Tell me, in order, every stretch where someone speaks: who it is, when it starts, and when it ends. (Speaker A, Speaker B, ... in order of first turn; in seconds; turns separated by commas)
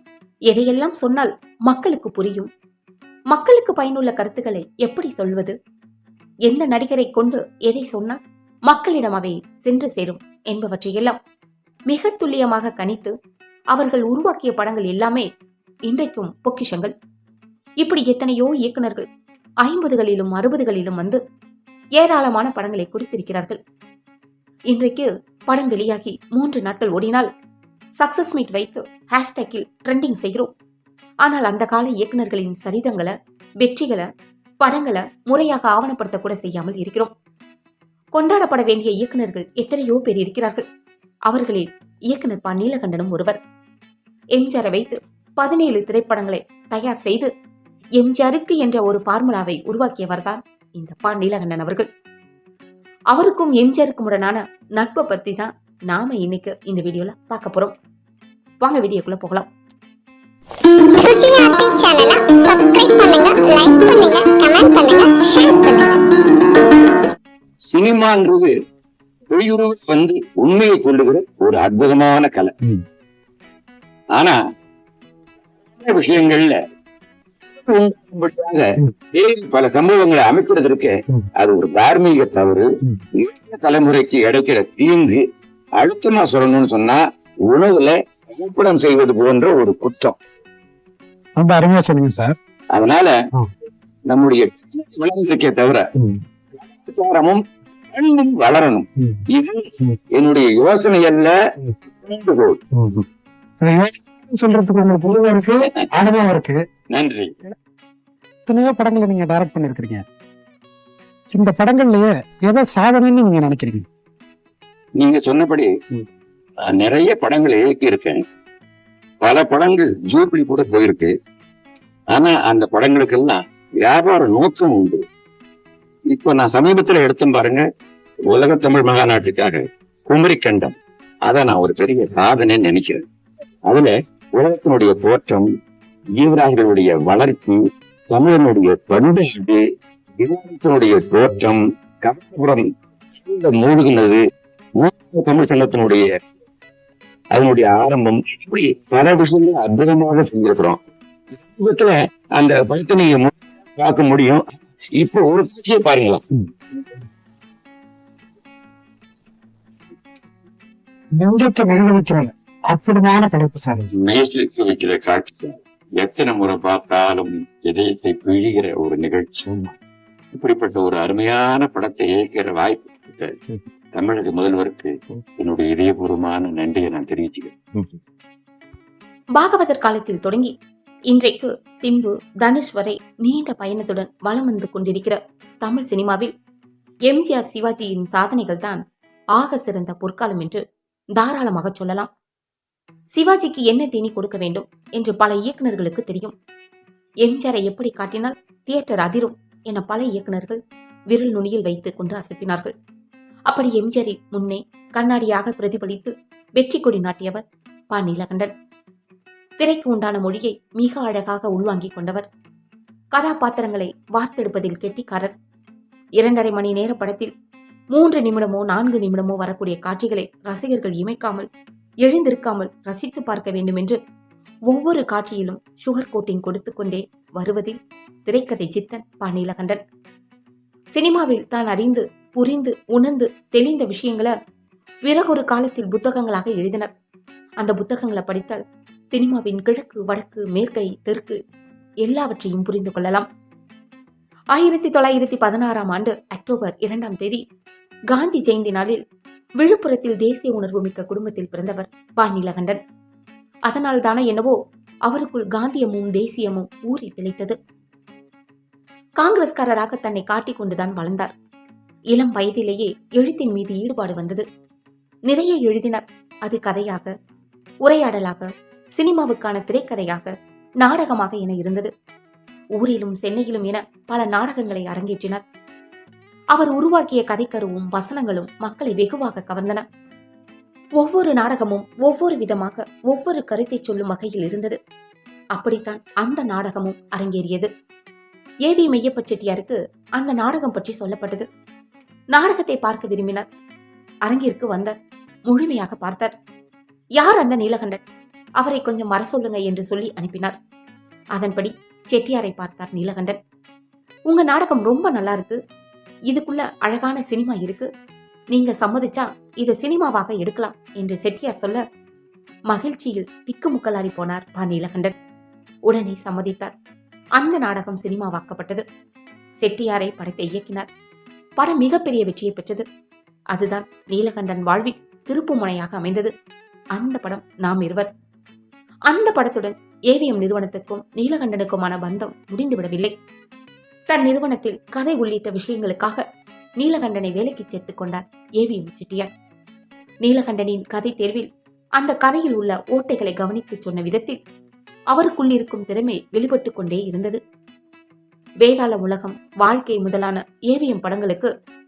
Speaker A: 0.5-2.5, Speaker A: 3.3-5.5, Speaker A: 6.5-11.2, Speaker A: 11.9-13.1, Speaker A: 13.7-15.3, Speaker A: 15.9-16.9, Speaker A: 17.8-19.1, Speaker A: 19.6-21.2, Speaker A: 22.0-23.6, Speaker A: 24.7-27.3, Speaker A: 28.0-30.5, Speaker A: 31.2-34.0, Speaker A: 34.6-37.1, Speaker A: 38.1-40.6, Speaker A: 41.3-43.4, Speaker A: 44.4-47.3, Speaker A: 48.0-51.9, Speaker A: 53.1-57.7, Speaker A: 58.6-59.5, Speaker B: 61.0-66.0, Speaker C: 67.7-68.5, Speaker C: 69.3-72.5, Speaker C: 75.8-76.5, Speaker C: 77.6-82.7, Speaker C: 83.2-85.2, Speaker C: 85.8-90.2, Speaker D: 91.4-92.4, Speaker C: 92.7-93.1, Speaker C: 94.1-95.8, Speaker D: 96.0-96.2, Speaker C: 96.6-97.4, Speaker C: 97.9-99.6, Speaker C: 100.2-101.3, Speaker C: 102.0-102.6, Speaker D: 102.7-103.0, Speaker D: 103.6-106.6, Speaker C: 106.9-107.3, Speaker D: 108.5-110.0, Speaker D: 111.3-113.9, Speaker C: 115.0-115.7, Speaker C: 116.7-118.2, Speaker C: 119.2-121.1, Speaker C: 122.1-125.0, Speaker C: 126.1-127.6, Speaker C: 128.3-130.8, Speaker C: 131.3-133.0, Speaker C: 133.7-135.4, Speaker C: 136.2-137.6, Speaker C: 138.1-139.6, Speaker C: 140.2-142.7, Speaker C: 143.2-144.2, Speaker C: 144.8-146.1, Speaker C: 147.3-150.8, Speaker C: 151.3-154.4, Speaker C: 155.0-156.2, Speaker D: 161.2-163.9, Speaker C: 164.0-169.5, Speaker C: 170.3-173.4, Speaker C: 173.9-177.7, Speaker A: 179.4-180.5, Speaker A: 181.1-186.3, Speaker A: 187.1-188.8, Speaker A: 189.4-190.6, Speaker A: 191.2-192.1, Speaker A: 193.1-196.4, Speaker A: 197.2-202.7, Speaker A: 203.5-208.5, Speaker A: 209.6-212.3, Speaker A: 213.1-215.3, Speaker A: 216.2-217.3, Speaker A: 217.9-221.5, Speaker A: 222.0-224.0, Speaker A: 224.7-229.8, Speaker A: 230.9-234.3, Speaker A: 235.0-236.9, Speaker A: 237.6-238.6, Speaker A: 239.1-241.4, Speaker A: 242.0-243.2, Speaker A: 244.5-247.4, Speaker A: 248.1-249.0, Speaker A: 249.6-252.8, Speaker A: 253.7-254.5, Speaker A: 255.1-257.6, Speaker A: 259.2-261.3, Speaker A: 262.1-264.4, Speaker A: 265.3-267.1, Speaker A: 267.8-270.3, Speaker A: 270.8-271.9, Speaker A: 272.8-275.4, Speaker A: 276.5-279.8, Speaker A: 281.0-284.8, Speaker A: 285.5-287.7, Speaker A: 288.7-291.5, Speaker A: 292.3-293.4, Speaker A: 294.2-294.9, Speaker A: 295.5-296.3, Speaker A: 297.2-298.0, Speaker A: 298.6-300.5, Speaker A: 301.4-303.4, Speaker A: 304.3-305.6, Speaker A: 306.3-307.9, Speaker A: 308.5-311.8, Speaker A: 312.7-315.1, Speaker A: 315.9-316.7, Speaker A: 317.4-318.8, Speaker A: 319.6-320.9, Speaker A: 321.6-322.8, Speaker A: 323.5-326.3, Speaker A: 326.9-328.1, Speaker A: 329.1-333.1, Speaker A: 334.1-336.2, Speaker A: 336.8-339.3, Speaker A: 340.2-344.4, Speaker A: 345.1-347.4, Speaker A: 348.6-351.5